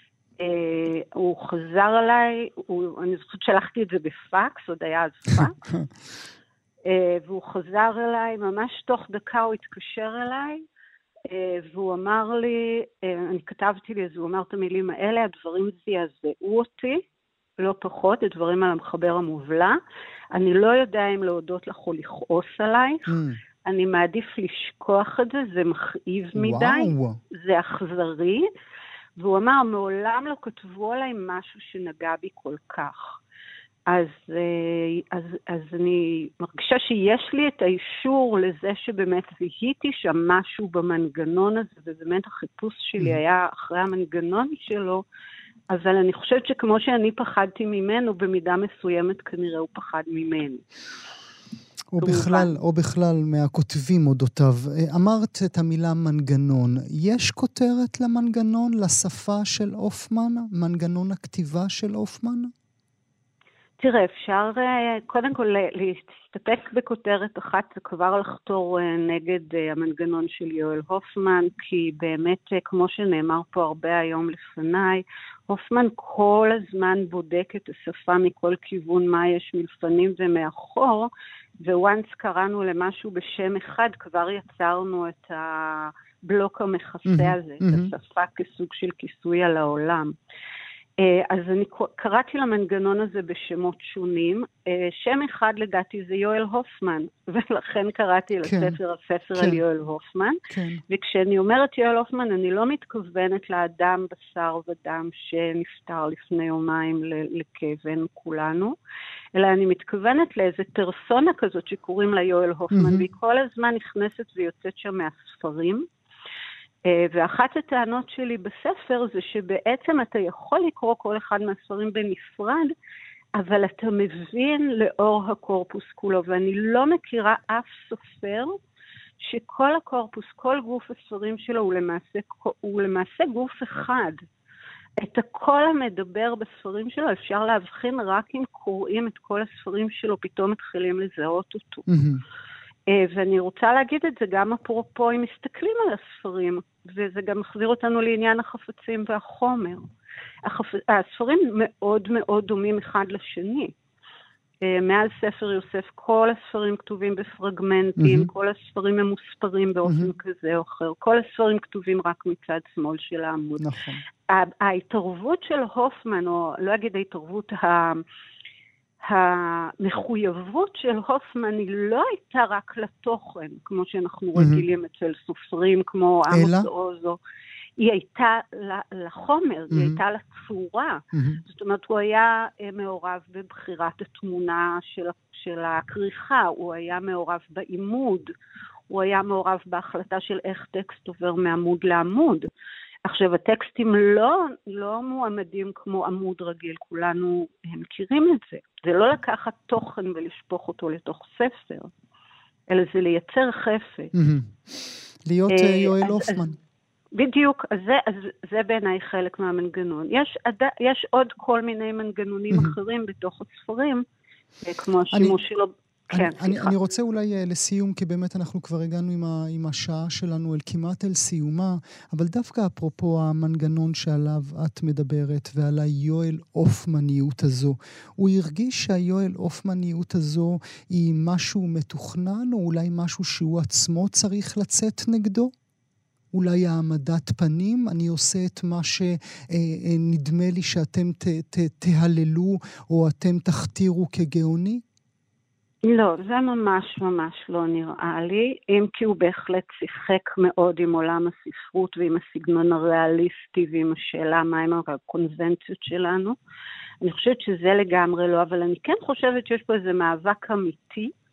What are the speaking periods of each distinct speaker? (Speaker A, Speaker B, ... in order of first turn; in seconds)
Speaker A: 0.4-5.6, 6.8-10.6, 11.3-17.0, 17.6-19.8, 20.3-28.5, 29.2-33.2, 33.9-45.0, 45.7-50.6, 52.0-52.6, 63.8-90.2, 91.0-100.4, 100.9-108.8, 109.3-115.9, 116.8-122.7, 123.3-128.6, 129.2-134.2, 135.0-141.9, 142.9-149.8, 150.4-153.7, 154.6-163.7, 164.3-168.0, 169.0-177.2, 177.8-188.3, 188.9-192.5, 193.1-201.9, 202.7-204.1, 205.5-206.5, 207.2-214.0, 214.6-216.8, 245.8-256.4, 257.0-261.1
Speaker B: 23.1-23.4, 26.4-27.2, 51.9-62.5, 87.1-87.9, 98.5-98.8, 99.4-99.6, 100.5-100.8, 112.7-113.0, 141.9-142.2, 158.0-158.3, 163.6-164.0, 174.4-174.6, 176.3-176.7, 179.7-180.0, 181.1-181.4, 204.1-204.6, 205.3-206.6, 216.1-235.5, 236.3-244.8